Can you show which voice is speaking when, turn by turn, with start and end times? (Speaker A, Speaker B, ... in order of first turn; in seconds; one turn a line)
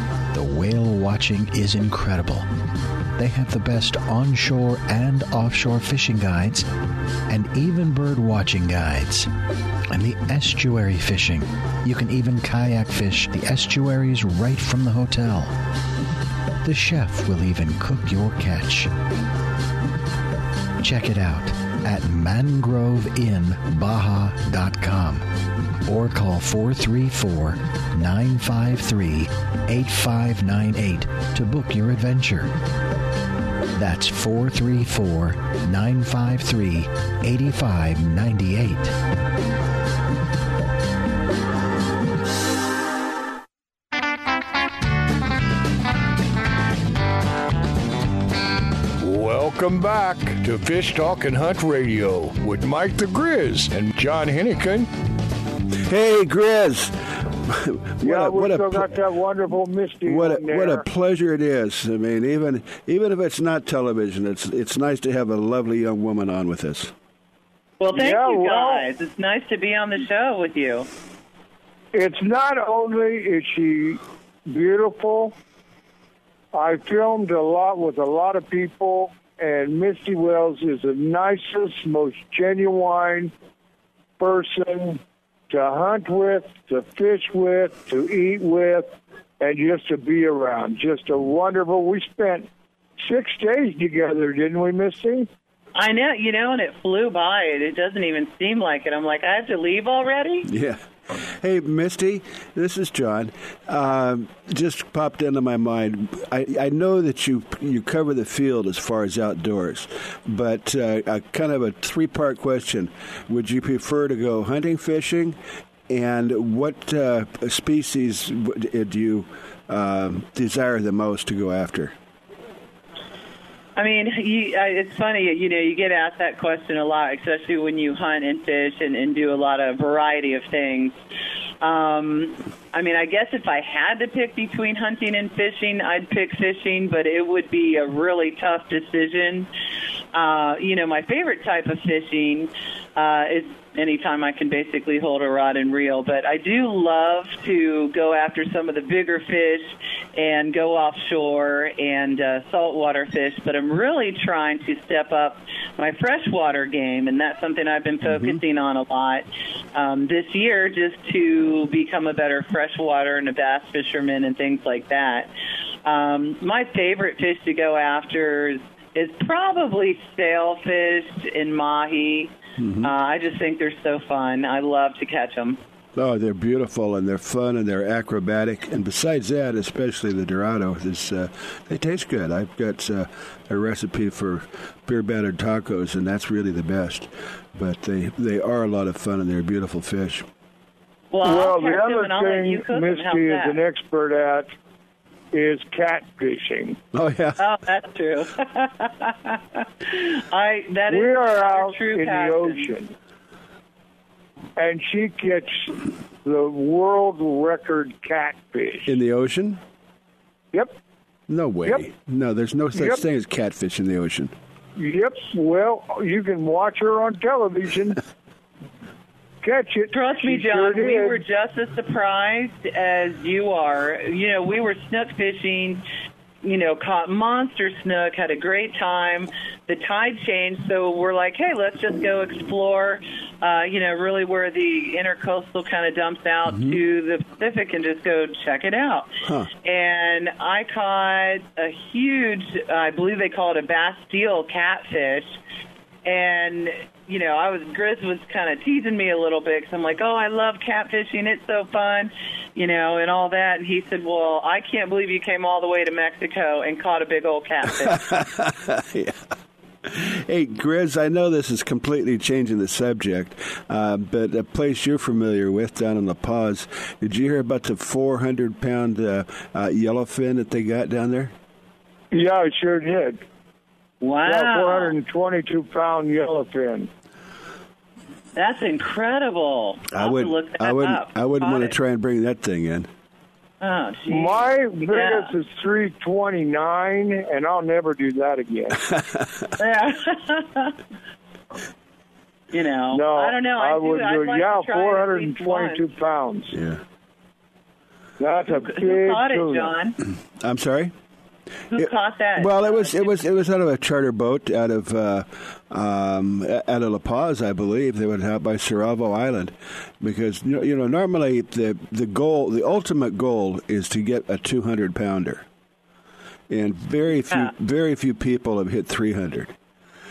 Speaker A: 0.3-2.5
Speaker A: 3.2-6.7
Speaker A: 7.3-9.3
Speaker A: 9.9-15.5
Speaker A: 16.6-18.9
Speaker A: 20.8-25.2
Speaker A: 25.8-32.5
Speaker A: 33.7-38.9
Speaker B: 49.0-54.9
Speaker C: 55.8-58.9
Speaker D: 58.0-60.8
Speaker C: 60.0-66.9
Speaker E: 67.8-70.9
Speaker D: 67.9-68.8
Speaker D: 71.9-75.3
Speaker D: 76.5-83.3
Speaker D: 84.2-88.9
Speaker D: 89.4-92.5
Speaker D: 93.0-95.3
Speaker E: 95.7-100.5
Speaker C: 100.4-115.4
Speaker C: 115.9-121.9
Speaker E: 123.8-130.9
Speaker E: 131.6-139.5
Speaker E: 140.1-165.3
Speaker C: 158.0-158.4
Speaker E: 165.8-175.6
Speaker C: 172.6-172.9
Speaker C: 175.9-190.3
Speaker E: 191.1-193.6
Speaker D: 191.2-194.5
Speaker D: 195.3-196.8
Speaker C: 196.9-197.4
Speaker E: 197.4-202.7
Speaker D: 200.9-202.9
Speaker D: 204.6-208.9
Speaker C: 208.8-209.6
Speaker C: 211.3-214.3
Speaker D: 214.8-218.0
Speaker D: 219.4-221.2
Speaker E: 219.9-225.8
Speaker E: 226.4-239.1
Speaker C: 236.5-236.8
Speaker E: 239.6-245.4
Speaker E: 246.0-258.0
Speaker C: 257.8-259.2
Speaker C: 259.8-271.3
Speaker D: 272.1-273.2
Speaker E: 274.0-274.9
Speaker D: 274.2-276.9
Speaker E: 278.3-281.7
Speaker C: 279.9-282.9
Speaker E: 283.6-285.3
Speaker D: 284.1-288.8
Speaker C: 288.9-289.5
Speaker E: 289.6-290.7
Speaker E: 292.5-295.8
Speaker D: 292.9-296.6
Speaker C: 296.5-296.8
Speaker D: 298.2-299.7
Speaker E: 298.5-299.9
Speaker C: 300.4-300.9
Speaker E: 301.7-303.2
Speaker C: 301.7-315.4
Speaker C: 316.5-319.5